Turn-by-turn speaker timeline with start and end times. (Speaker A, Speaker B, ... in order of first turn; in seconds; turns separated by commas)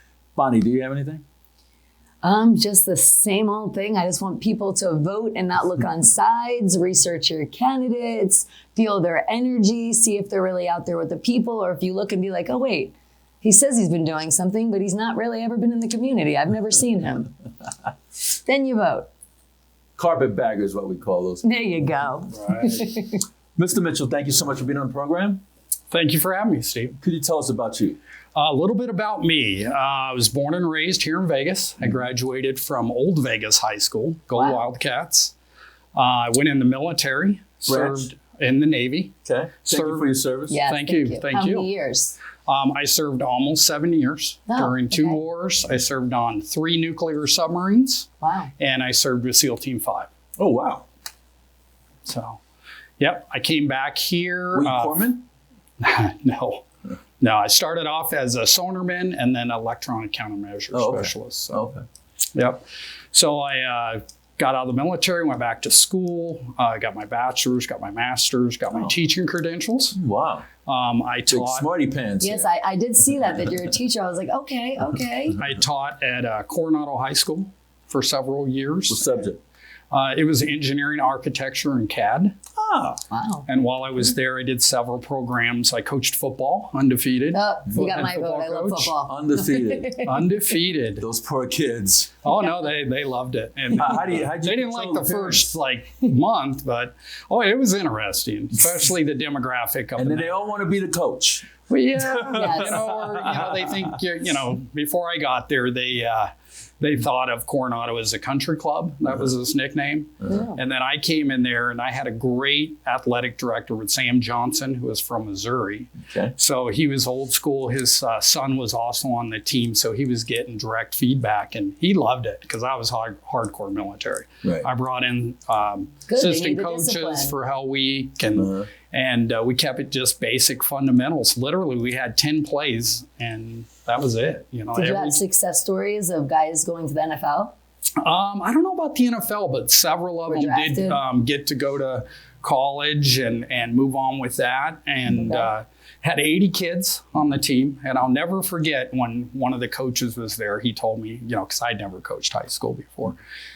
Speaker A: 0.3-1.2, Speaker B: 2.2-17.3, Speaker B: 18.2-19.1, Speaker A: 20.0-21.4, Speaker B: 21.4-23.2, Speaker C: 22.3-22.8, Speaker A: 23.6-25.4, Speaker C: 25.9-27.0, Speaker A: 27.0-28.0, Speaker C: 28.3-35.3, Speaker B: 34.3-34.6, Speaker C: 35.9-39.1, Speaker A: 37.6-38.1, Speaker A: 39.2-40.6, Speaker C: 39.6-41.7, Speaker B: 40.5-42.2, Speaker C: 42.5-50.1, Speaker B: 44.5-45.2, Speaker B: 48.2-48.5, Speaker A: 50.4-50.9, Speaker C: 52.0-52.4, Speaker C: 53.0-55.0, Speaker A: 54.5-55.2, Speaker C: 55.8-56.6, Speaker C: 57.2-61.6, Speaker A: 60.7-61.8, Speaker C: 62.3-70.0, Speaker A: 70.0-70.5, Speaker C: 70.7-71.7, Speaker A: 71.3-72.5, Speaker B: 72.2-75.4, Speaker C: 75.4-79.2, Speaker A: 78.9-79.4, Speaker C: 79.9-82.3, Speaker A: 82.6-83.0, Speaker B: 83.1-83.5, Speaker C: 83.5-89.0, Speaker B: 87.3-90.2, Speaker A: 89.1-89.9, Speaker C: 90.0-91.0, Speaker A: 91.0-92.2, Speaker C: 92.2-100.5, Speaker A: 93.7-95.5, Speaker A: 100.0-103.7, Speaker C: 101.7-135.2, Speaker B: 102.3-102.8, Speaker B: 110.2-110.6, Speaker B: 126.1-127.3, Speaker A: 128.3-128.7, Speaker B: 134.7-137.5, Speaker C: 138.0-153.2, Speaker B: 140.3-141.0, Speaker B: 145.1-145.5